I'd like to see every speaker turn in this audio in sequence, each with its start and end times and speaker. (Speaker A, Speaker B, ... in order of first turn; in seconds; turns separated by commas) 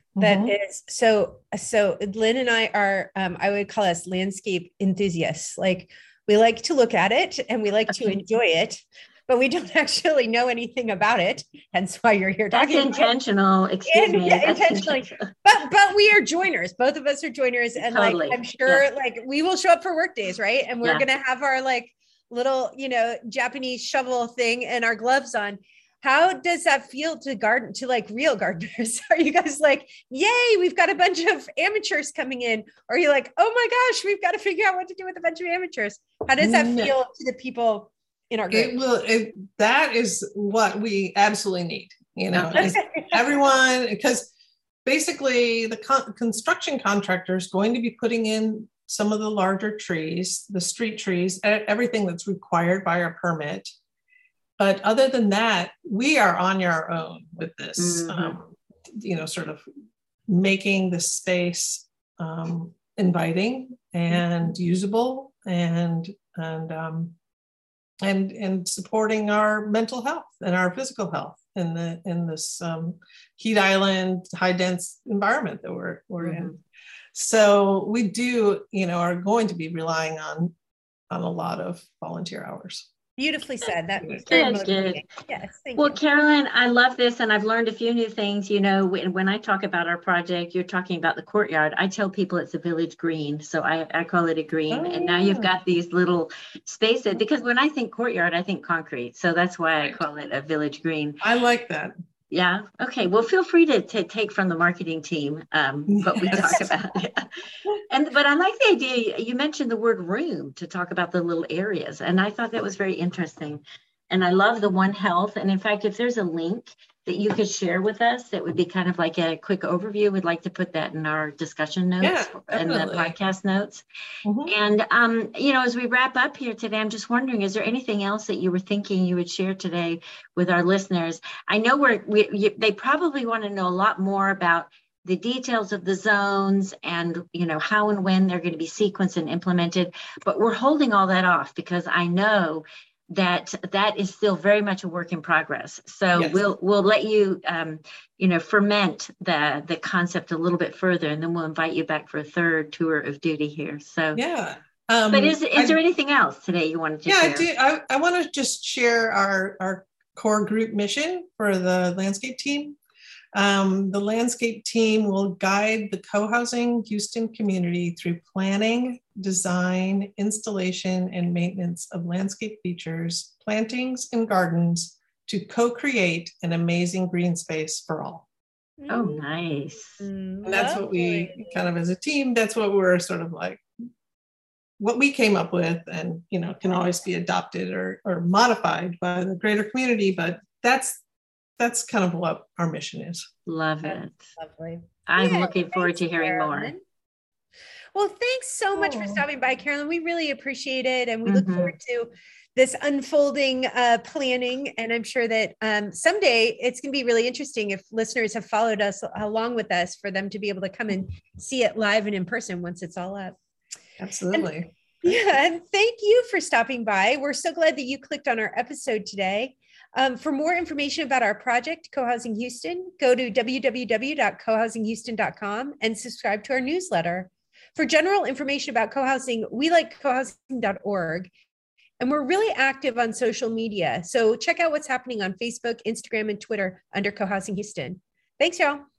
Speaker A: 0.2-0.5, Speaker B: 0.2-13.2, Speaker C: 12.5-15.1, Speaker B: 13.9-38.8, Speaker C: 17.8-18.8, Speaker A: 36.4-36.9, Speaker A: 38.5-44.3, Speaker C: 42.3-42.8, Speaker B: 42.5-43.2, Speaker A: 44.9-53.7, Speaker A: 54.6-59.6, Speaker C: 57.8-58.4, Speaker A: 60.3-67.1, Speaker A: 68.0-76.5, Speaker C: 76.2-76.6, Speaker A: 77.2-80.5, Speaker A: 81.1-82.9, Speaker B: 83.2-86.0, Speaker C: 84.3-85.0, Speaker C: 85.8-101.2, Speaker A: 94.7-95.5, Speaker A: 101.2-101.9, Speaker C: 102.3-107.3, Speaker A: 105.9-106.7, Speaker C: 107.9-123.8, Speaker A: 122.0-123.2, Speaker A: 124.2-124.5, Speaker C: 124.5-154.2, Speaker A: 146.1-146.4, Speaker A: 154.1-155.8, Speaker C: 155.1-157.5, Speaker A: 157.1-162.8, Speaker A: 163.3-178.3, Speaker B: 178.8-179.2, Speaker C: 178.9-180.0, Speaker B: 180.0-181.6, Speaker A: 180.4-183.6, Speaker A: 184.8-191.0, Speaker A: 191.6-193.3, Speaker C: 193.5-194.3, Speaker B: 193.8-196.8, Speaker C: 195.1-196.7, Speaker B: 197.9-213.3, Speaker A: 198.8-199.2, Speaker C: 201.3-201.8, Speaker A: 214.0-215.1, Speaker B: 215.0-231.3, Speaker B: 232.0-238.8